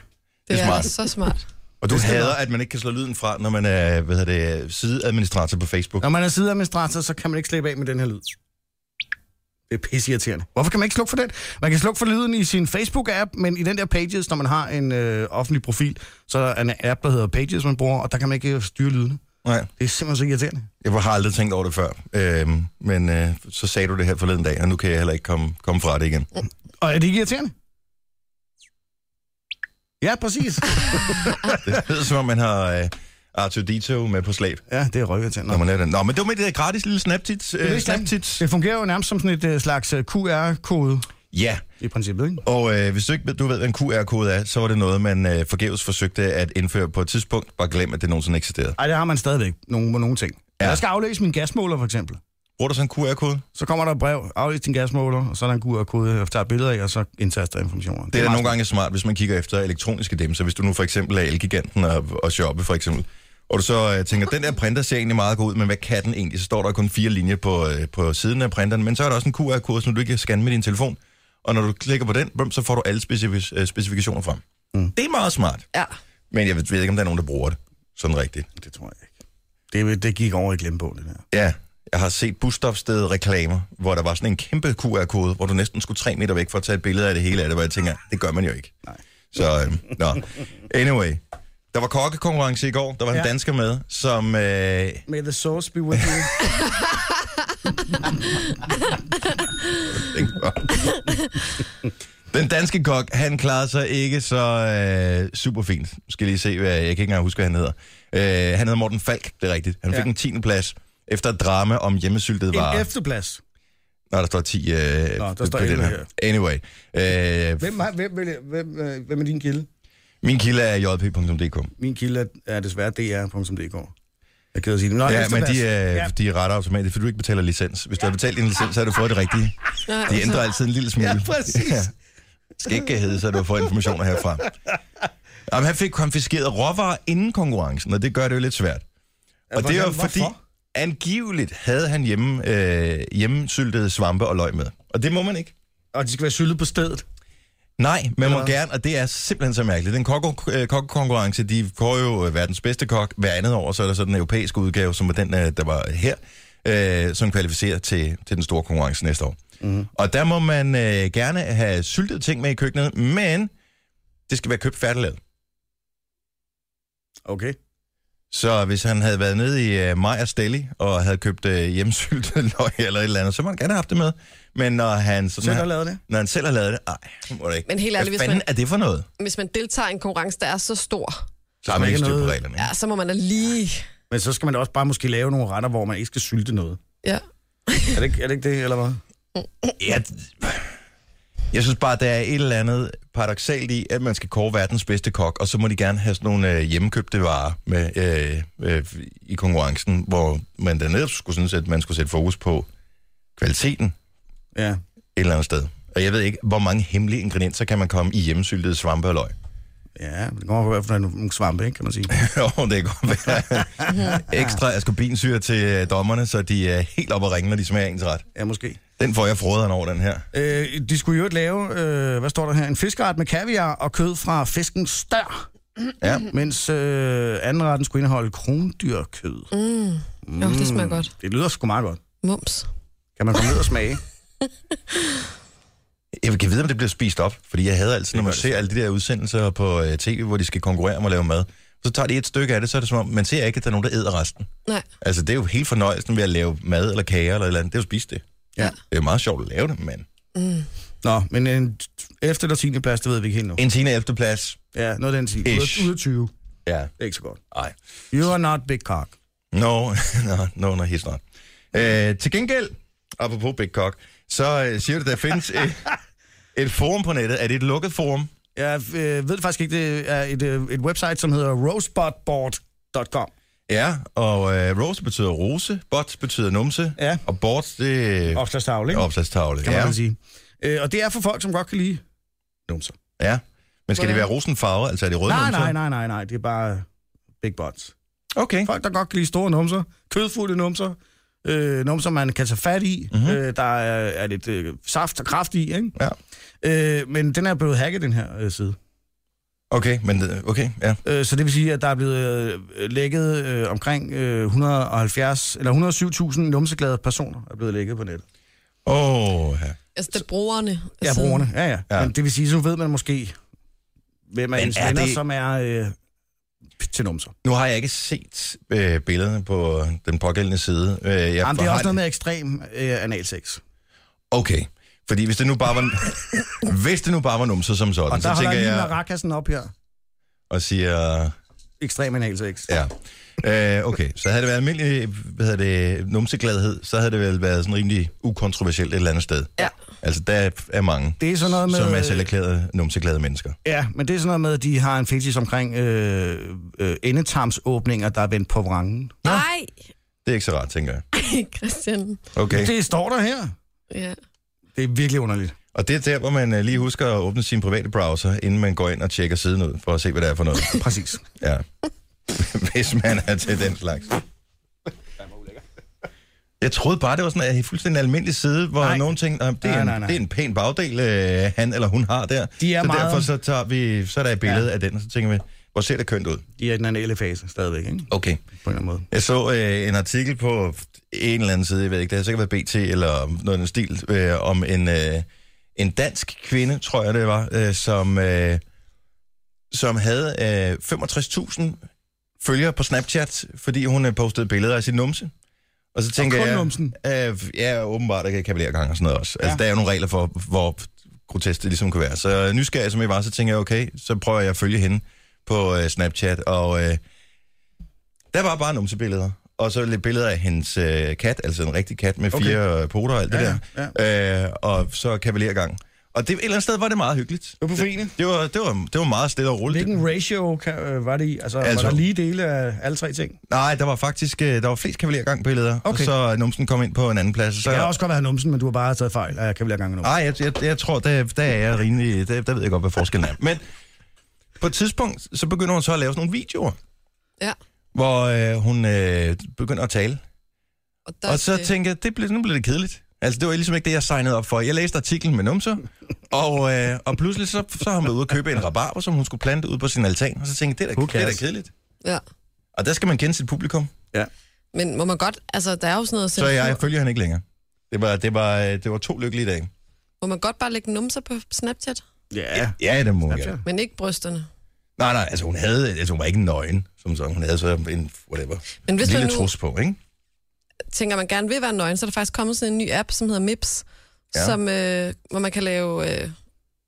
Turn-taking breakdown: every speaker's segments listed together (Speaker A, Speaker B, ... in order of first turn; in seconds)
Speaker A: 0.5-0.9, 1.8-6.0, 19.4-19.7, 20.8-26.3, 31.5-34.6, 35.5-38.4, 41.3-41.6, 42.4-48.8, 52.6-53.4, 58.1-74.4, 74.9-75.7, 76.3-78.5, 81.3-88.7, 89.3-91.2, 91.7-95.1, 99.9-100.9, 102.3-112.9, 114.1-117.7, 120.2-121.7, 125.0-131.9, 132.6-134.5, 135.5-138.8, 139.5-145.5, 147.8-159.4, 159.9-163.5, 164.3-165.2, 168.3-179.1, 181.6-182.7, 189.8-190.7, 191.5-202.7, 203.4-203.9, 205.2-209.3, 212.1-218.3, 219.0-220.3, 226.0-226.3, 236.2-244.5, 245.0-248.2, 248.8-250.1, 253.6-254.6, 255.4-255.9, 256.7-256.9, 259.5-265.9, 266.6-268.3, 273.7-280.0, 283.2-285.8, 288.4-288.7, 293.1-293.4, 299.7-301.0, 308.9-309.8, 314.6-315.2, 317.4-322.0, 324.3-328.9, 330.5-331.3, 332.7-343.6, 350.2-351.0, 352.3-352.7, 355.7-360.8, 361.4-361.6, 362.3-364.2, 366.6-376.4, 378.1-378.4, 379.1-388.6, 389.7-391.8, 392.4-395.3, 395.9-407.0, 408.3-419.9, 421.6-422.0, 423.5-427.9, 430.0-433.6, 434.6-436.8, 437.9-440.2, 441.3-451.7, 452.8-453.9, 456.4-459.7, 462.6-463.6, 465.0-470.0
Speaker B: 0.5-1.4, 129.9-130.4, 177.7-178.4, 179.2-181.2, 182.6-183.9, 187.0-188.0, 229.5-231.1, 232.2-232.7, 234.9-235.2, 250.4-250.7, 284.0-284.3, 310.0-311.4, 349.2-349.7, 351.1-352.2, 353.9-354.2, 441.1-441.7, 454.7-456.8, 460.2-462.0, 463.6-464.5, 468.9-469.5, 470.9-476.4
Speaker C: 1.9-2.4, 6.0-8.3, 9.7-19.2, 19.8-20.7, 26.8-27.5, 30.0-31.6, 34.7-35.6, 37.6-41.1, 41.8-42.4, 48.8-52.2, 53.5-58.5, 78.6-79.1, 79.7-81.2, 95.1-96.4, 112.5-113.4, 115.2-116.1, 117.6-119.7, 121.8-123.9, 124.5-126.1, 131.0-131.9, 139.5-140.4, 145.9-147.1, 148.2-148.5, 159.6-159.9, 167.3-167.6, 175.4-176.0, 181.7-182.4, 184.1-186.8, 187.9-189.0, 204.6-204.8, 210.0-212.1, 213.8-214.4, 218.3-218.8, 220.3-225.5, 226.3-229.5, 230.3-232.0, 233.2-234.0, 238.1-238.7, 251.0-253.6, 254.7-256.3, 257.0-257.4, 258.1-259.2, 268.6-273.3, 278.3-279.1, 279.6-282.0, 282.7-283.0, 285.3-286.9, 287.4-287.9, 288.6-295.9, 296.6-298.8, 301.1-308.2, 311.0-313.4, 314.3-316.0, 316.8-317.3, 321.4-323.6, 328.1-329.7, 331.8-332.7, 341.2-342.3, 343.6-349.2, 352.5-353.5, 354.8-355.6, 360.8-361.2, 365.3-365.6, 368.8-369.1, 369.6-370.2, 372.6-373.3, 376.6-378.1, 378.6-379.1, 396.2-397.0, 412.3-412.6, 413.3-413.9, 417.6-418.2, 419.7-423.4, 425.9-426.1, 427.6-430.1, 451.0-451.4, 462.3-463.6